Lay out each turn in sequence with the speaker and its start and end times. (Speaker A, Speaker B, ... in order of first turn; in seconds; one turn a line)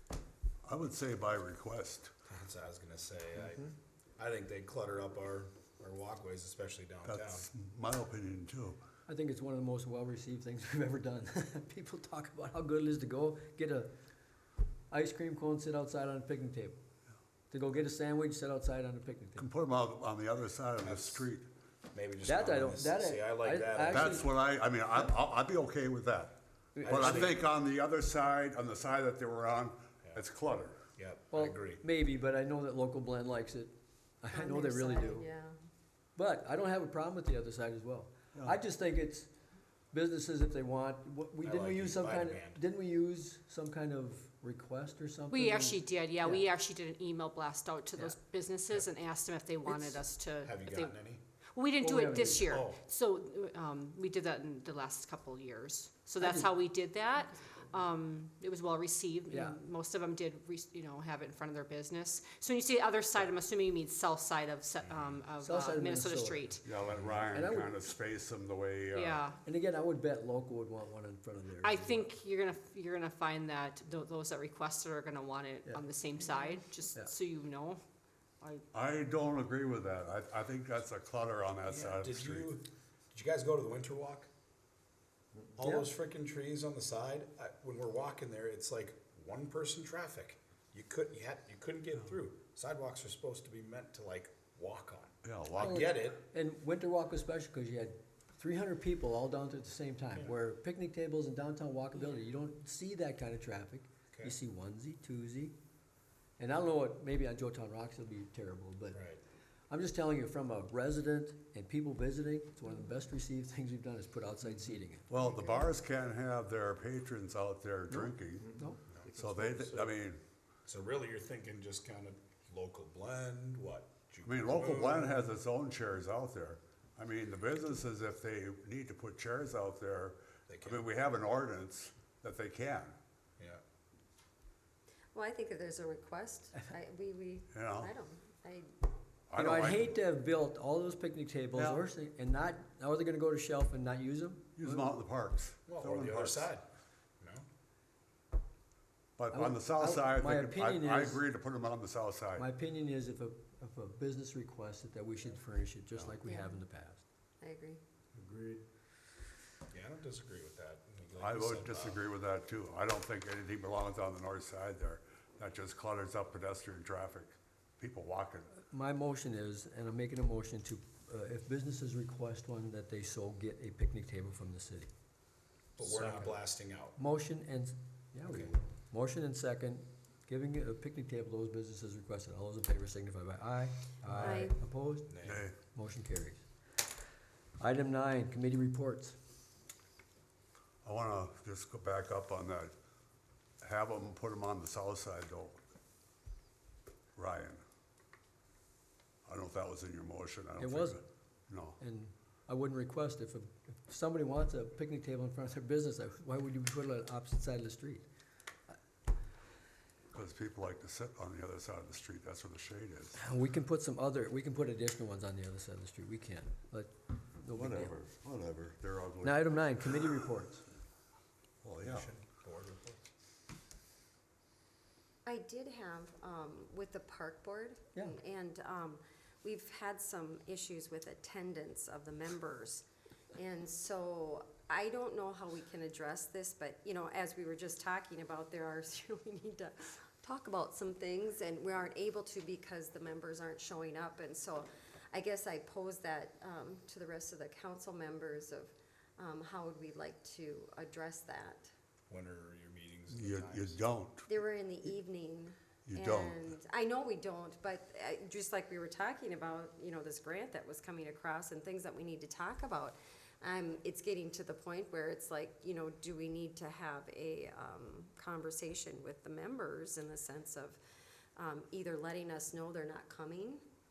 Speaker A: 0.6-2.1
Speaker B: 2.3-7.5
Speaker A: 7.0-8.8
Speaker C: 9.1-13.9
Speaker C: 14.9-16.8
Speaker C: 17.5-19.5
Speaker A: 19.4-21.5
Speaker B: 20.8-21.2
Speaker B: 21.9-24.2
Speaker C: 22.2-24.3
Speaker A: 23.9-30.8
Speaker C: 26.7-27.3
Speaker B: 26.8-27.4
Speaker B: 30.9-31.8
Speaker C: 31.3-35.3
Speaker D: 34.3-35.5
Speaker C: 36.1-39.3
Speaker C: 39.9-46.4
Speaker B: 41.4-42.6
Speaker E: 45.3-51.0
Speaker C: 49.7-50.0
Speaker B: 50.4-51.2
Speaker E: 51.5-66.6
Speaker C: 51.8-52.5
Speaker B: 52.4-52.8
Speaker C: 56.2-56.5
Speaker C: 59.3-59.6
Speaker B: 64.8-65.2
Speaker C: 65.4-66.4
Speaker A: 66.6-69.2
Speaker C: 67.3-67.8
Speaker E: 68.9-69.4
Speaker C: 69.4-72.1
Speaker E: 71.6-77.8
Speaker A: 78.7-82.5
Speaker B: 81.7-84.3
Speaker B: 85.5-96.2
Speaker C: 85.6-85.9
Speaker A: 95.2-95.8
Speaker C: 95.6-105.5
Speaker C: 106.4-109.0
Speaker B: 108.9-109.2
Speaker C: 109.7-115.1
Speaker A: 115.1-118.5
Speaker C: 117.9-118.8
Speaker B: 118.9-119.3
Speaker A: 119.1-120.2
Speaker B: 120.7-125.1
Speaker A: 124.2-132.9
Speaker B: 130.5-130.8
Speaker D: 135.1-138.7
Speaker A: 137.5-137.9
Speaker A: 139.3-140.0
Speaker C: 139.3-144.9
Speaker A: 141.6-141.8
Speaker A: 144.6-146.5
Speaker B: 145.7-146.6
Speaker A: 149.2-152.5
Speaker C: 149.3-151.2
Speaker C: 152.3-157.0
Speaker D: 156.2-156.6
Speaker D: 157.4-157.8
Speaker B: 159.7-162.0
Speaker A: 161.2-168.5
Speaker C: 168.7-174.9
Speaker B: 175.8-176.9
Speaker C: 176.9-185.1
Speaker B: 178.2-178.6
Speaker D: 184.1-184.5
Speaker B: 185.1-185.4
Speaker A: 185.2-185.6
Speaker C: 185.7-186.4
Speaker C: 187.6-189.2
Speaker A: 190.8-192.7
Speaker A: 193.6-195.6
Speaker A: 197.2-197.6
Speaker A: 199.2-201.8
Speaker C: 200.6-201.0
Speaker C: 201.8-208.0
Speaker A: 210.1-213.2
Speaker C: 213.2-217.9
Speaker A: 217.5-220.0
Speaker C: 219.2-220.6
Speaker A: 221.6-222.1
Speaker B: 221.8-223.1
Speaker D: 225.2-251.7
Speaker B: 252.1-253.8
Speaker A: 253.1-254.3
Speaker D: 254.3-270.8
Speaker A: 255.8-256.4
Speaker D: 271.4-273.6